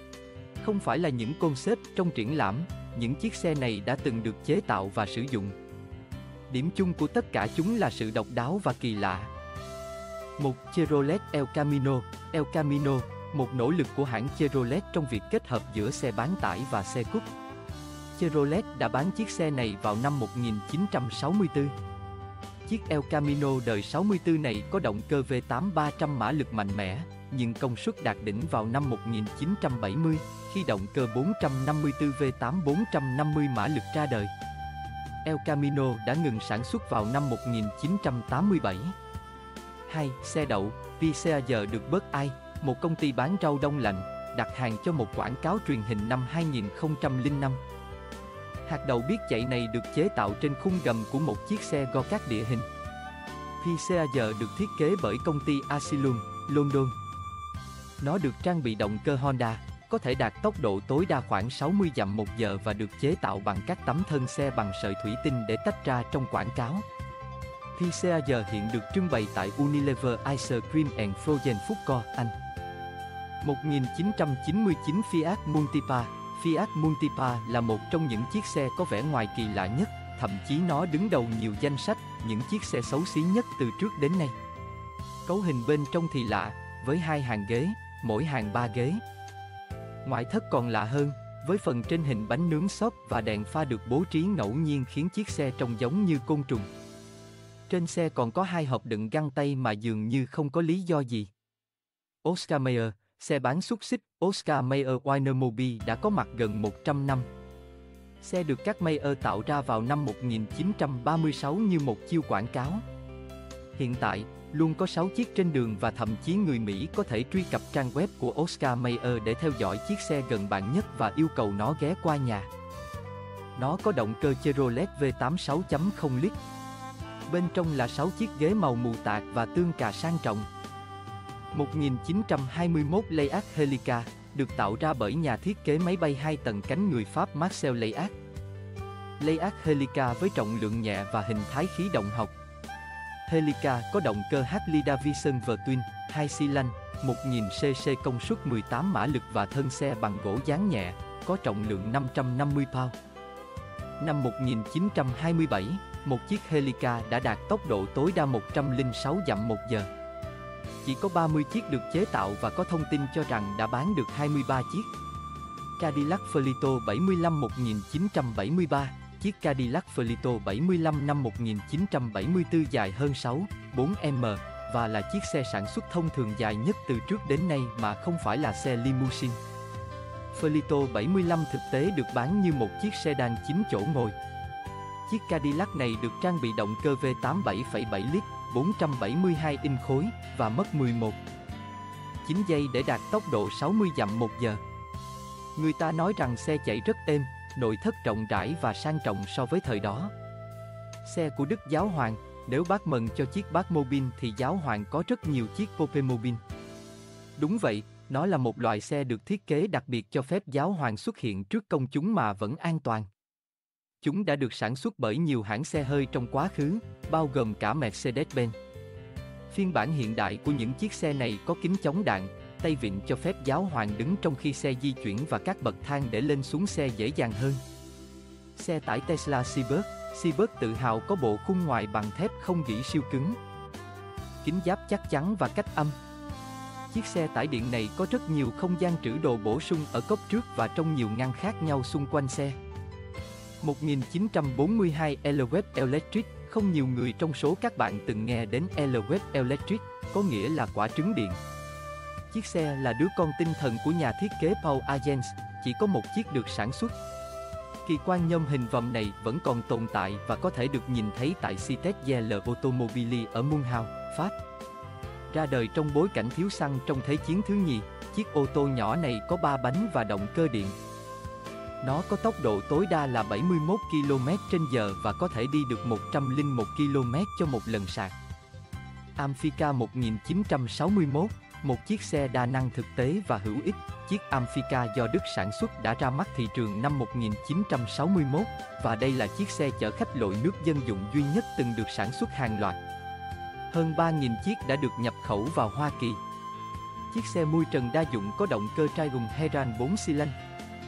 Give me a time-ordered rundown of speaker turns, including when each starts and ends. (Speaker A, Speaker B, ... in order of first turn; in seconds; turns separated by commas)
Speaker A: 0.6-5.6, Speaker A: 6.5-9.3, Speaker A: 10.4-17.3, Speaker A: 18.2-21.8, Speaker A: 22.7-34.3, Speaker A: 35.2-38.9, Speaker A: 39.9-47.6, Speaker A: 48.7-52.7, Speaker A: 53.6-57.0, Speaker A: 58.0-66.8, Speaker A: 67.8-72.3, Speaker A: 73.4-84.4, Speaker A: 85.3-89.0, Speaker A: 90.0-96.7, Speaker A: 97.7-101.3, Speaker A: 102.2-107.3, Speaker A: 108.2-112.8, Speaker A: 113.8-122.5, Speaker A: 123.6-126.4, Speaker A: 127.3-130.5, Speaker A: 131.5-138.1, Speaker A: 139.2-142.3, Speaker A: 143.3-153.0, Speaker A: 154.0-159.9, Speaker A: 160.8-164.9, Speaker A: 165.8-179.4, Speaker A: 180.3-184.2, Speaker A: 185.1-191.2, Speaker A: 192.2-194.6, Speaker A: 195.6-200.1, Speaker A: 201.0-206.4, Speaker A: 207.4-213.1, Speaker A: 214.0-218.6, Speaker A: 219.5-227.6, Speaker A: 228.6-233.4, Speaker A: 234.4-236.0, Speaker A: 236.9-242.6, Speaker A: 243.6-251.4, Speaker A: 252.3-257.0, Speaker A: 257.9-264.4, Speaker A: 265.3-270.8, Speaker A: 271.8-278.1, Speaker A: 279.2-292.8, Speaker A: 293.7-296.2, Speaker A: 297.1-300.4